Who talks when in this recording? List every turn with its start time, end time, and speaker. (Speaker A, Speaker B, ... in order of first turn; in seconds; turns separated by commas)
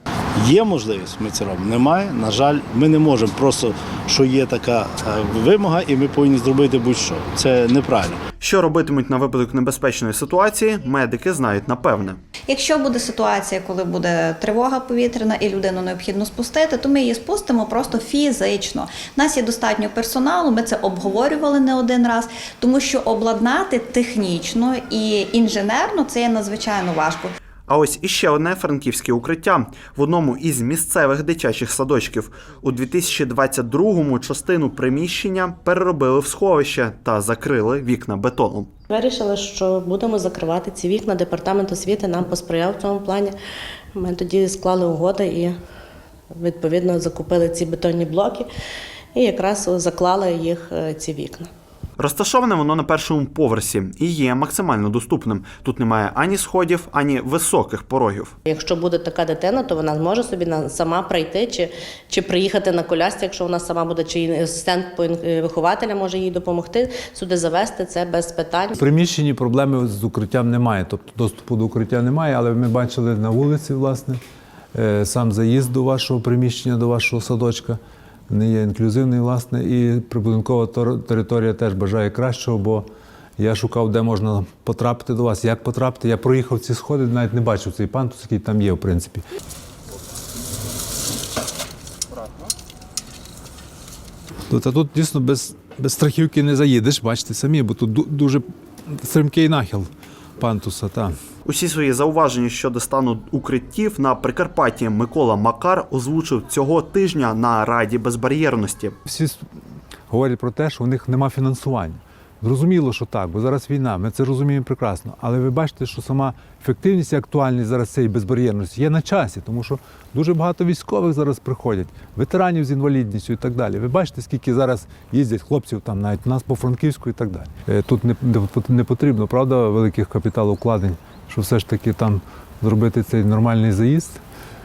Speaker A: 0.4-8.2, Speaker B: 8.4-12.2, Speaker C: 12.5-27.3, Speaker B: 27.7-38.7, Speaker D: 38.9-43.4, Speaker D: 43.9-45.6, Speaker D: 46.3-48.5, Speaker D: 49.1-51.5, Speaker B: 52.0-58.3, Speaker D: 58.5-68.7, Speaker E: 68.8-74.2, Speaker E: 74.7-82.9, Speaker E: 83.4-89.2, Speaker E: 94.5-101.1, Speaker B: 101.4-108.9, Speaker E: 109.1-109.4, Speaker E: 110.1-134.2